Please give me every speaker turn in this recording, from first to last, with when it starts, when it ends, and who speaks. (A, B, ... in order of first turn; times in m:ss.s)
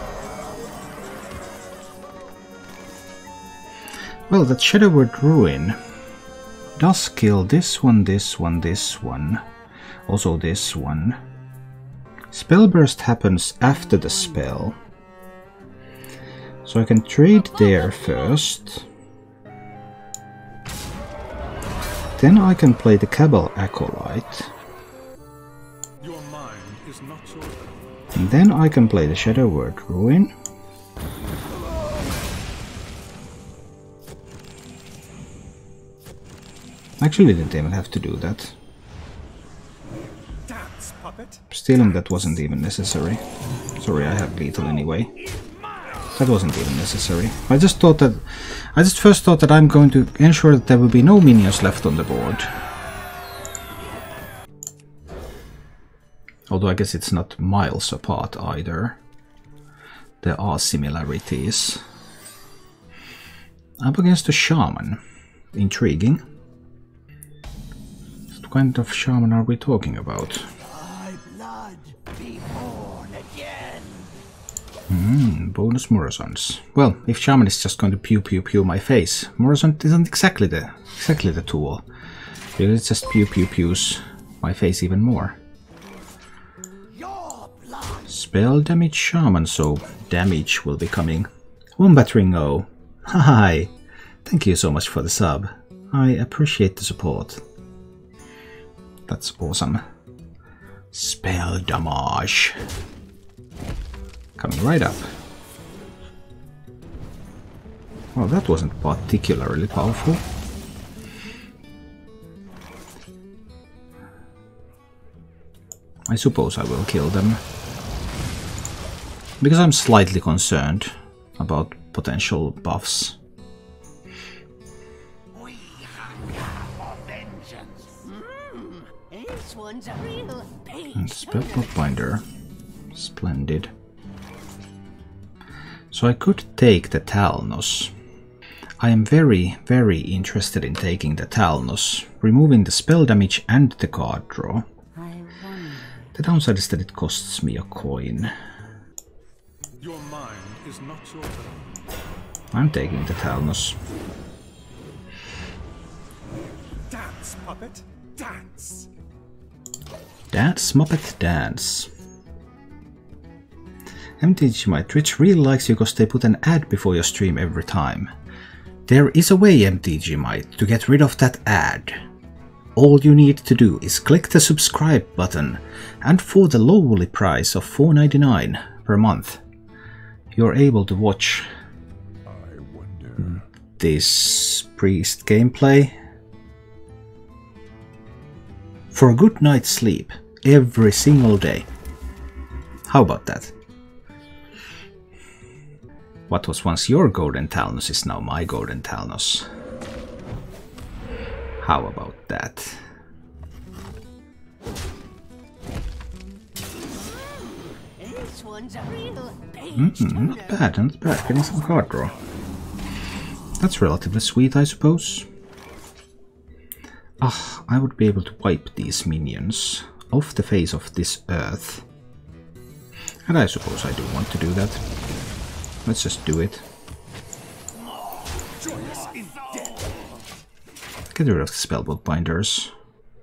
0:04.3-0:05.8 A
0:06.8-0:09.4 A
0:10.1-0:11.2 A
0:12.3-0:14.8 A
0:16.6-0:18.9 A
0:22.2-0:24.5 A
0:26.0-0:27.9 B
0:28.2-0:30.3 A
0:37.0-0:38.6 A
0:40.5-0:41.5 B
0:41.5-0:43.2 A
0:43.8-0:45.1 A
0:45.3-0:46.0 B
0:46.1-0:52.6 A
0:56.5-0:59.0 A
1:00.2-1:01.8 A
1:03.8-1:05.0 A
1:05.5-1:06.2 A
1:08.3-1:10.5 A
1:10.6-1:14.2 C
1:14.9-1:21.8 A
1:22.6-1:25.4 A
1:26.9-1:28.1 C
1:28.1-1:33.7 A
1:34.2-1:37.4 A
1:39.1-1:39.8 A
1:40.9-1:42.6 A
1:44.4-1:45.1 A
1:48.2-1:50.2 A
1:56.1-1:57.4 A
1:59.4-2:03.2 A
2:05.3-2:11.7 C
2:10.9-2:12.2 A
2:12.9-2:13.7 A
2:15.9-2:17.9 A
2:18.8-2:24.6 A
2:25.0-2:25.9 C
2:26.2-2:28.3 A
2:29.8-2:31.8 B
2:32.5-2:33.8 A
2:36.9-2:38.9 B
2:40.3-2:41.9 A
2:44.2-2:48.1 A
2:48.9-2:52.0 A
2:52.8-2:59.4 A
3:00.3-3:01.5 A
3:02.3-3:03.2 B
3:03.2-3:06.0 A
3:08.9-3:11.7 A
3:12.9-3:13.5 A
3:16.3-3:19.5 A
3:21.6-3:22.8 A
3:27.1-3:30.7 C
3:29.8-3:32.1 A
3:33.6-3:35.3 A
3:37.2-3:41.8 A
3:43.3-3:44.8 A
3:45.8-3:46.6 A
3:48.6-3:49.8 B
3:51.1-3:52.7 A